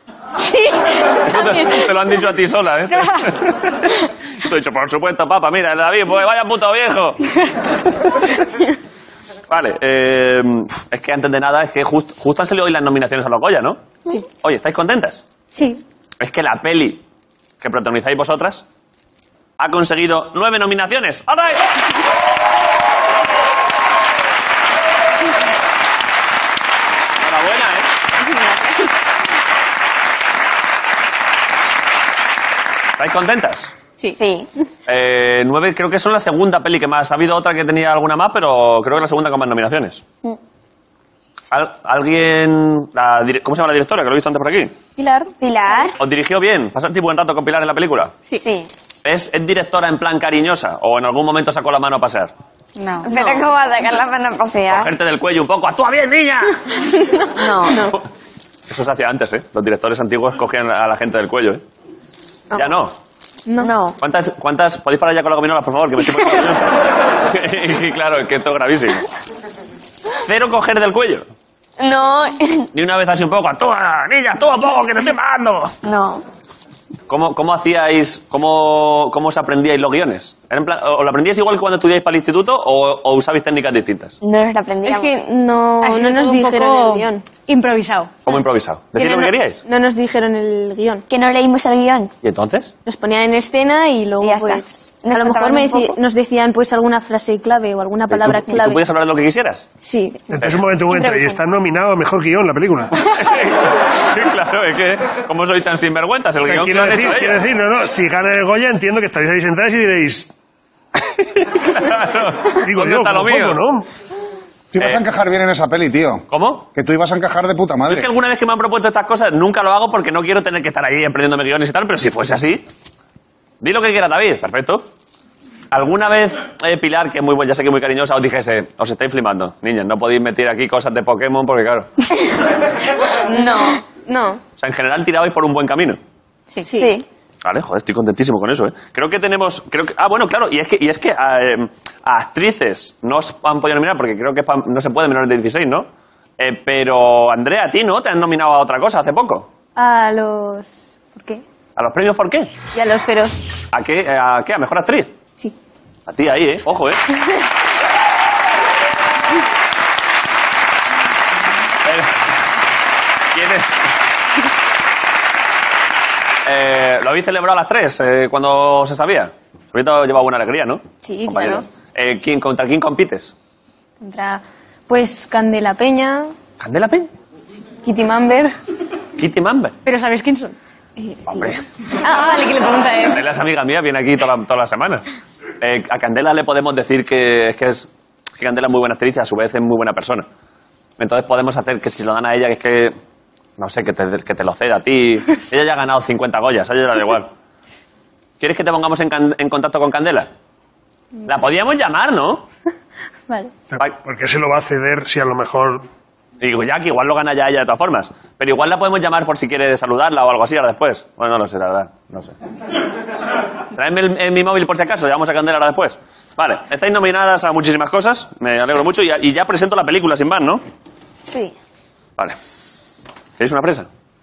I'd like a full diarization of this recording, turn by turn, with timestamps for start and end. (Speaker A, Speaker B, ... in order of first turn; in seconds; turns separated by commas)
Speaker A: 1.2-7.3, Speaker B: 1.4-1.7, Speaker C: 2.9-3.5, Speaker A: 9.5-13.8, Speaker A: 14.4-15.2, Speaker C: 15.5-15.8, Speaker A: 16.2-17.0, Speaker A: 17.6-18.7, Speaker A: 19.6-21.7, Speaker A: 27.2-27.9, Speaker B: 28.2-28.9, Speaker A: 33.0-33.8, Speaker D: 34.1-34.5, Speaker A: 34.9-40.0, Speaker A: 41.5-44.7, Speaker B: 45.0-45.3, Speaker D: 45.4-46.0, Speaker A: 46.0-48.1, Speaker D: 48.4-48.7, Speaker A: 49.0-52.3, Speaker C: 52.8-53.1, Speaker D: 53.0-54.9, Speaker B: 53.1-53.4, Speaker A: 54.7-56.6, Speaker B: 56.9-58.0, Speaker D: 57.4-57.9, Speaker A: 58.7-61.6, Speaker A: 62.5-63.0, Speaker B: 63.5-63.7, Speaker D: 63.6-64.0, Speaker A: 64.0-69.1, Speaker A: 70.2-71.3, Speaker D: 71.8-72.7, Speaker A: 72.7-75.7, Speaker D: 75.8-76.2, Speaker A: 77.1-84.2, Speaker D: 84.2-85.2, Speaker B: 84.9-87.2, Speaker C: 85.8-88.1, Speaker A: 88.3-89.6, Speaker D: 89.0-89.3, Speaker B: 89.7-91.0, Speaker D: 91.1-92.1, Speaker A: 92.2-92.7, Speaker B: 92.9-98.9, Speaker D: 94.2-96.0, Speaker A: 98.1-99.7, Speaker B: 99.8-100.3, Speaker E: 100.3-102.9, Speaker D: 100.9-101.4, Speaker A: 103.0-107.4, Speaker E: 106.4-110.3, Speaker A: 111.0-113.6, Speaker E: 112.5-113.9, Speaker F: 114.7-118.1, Speaker A: 116.3-116.7, Speaker A: 117.8-122.7, Speaker A: 123.6-124.9, Speaker A: 125.7-131.9, Speaker D: 133.3-133.8, Speaker B: 133.3-134.4, Speaker A: 134.6-136.0, Speaker D: 136.7-137.1, Speaker A: 137.4-145.9, Speaker A: 146.4-149.5, Speaker B: 149.8-151.4, Speaker A: 151.8-152.6, Speaker B: 152.7-153.3, Speaker A: 153.7-155.1, Speaker A: 156.1-157.0, Speaker A: 161.8-162.1, Speaker A: 163.3-163.7, Speaker A: 166.5-173.3, Speaker B: 171.0-171.7, Speaker B: 174.0-176.3, Speaker A: 176.6-177.1, Speaker B: 177.8-178.5, Speaker A: 179.2-179.8, Speaker C: 179.8-180.6, Speaker B: 181.0-183.2, Speaker A: 181.3-181.6, Speaker A: 183.1-185.1, Speaker A: 185.6-190.3, Speaker A: 191.0-192.9, Speaker A: 193.6-197.3, Speaker A: 198.4-200.3, Speaker A: 201.3-202.4, Speaker B: 203.3-203.5, Speaker E: 203.7-205.9, Speaker A: 206.4-212.3, Speaker A: 213.8-220.6, Speaker D: 221.2-221.5, Speaker A: 223.4-223.9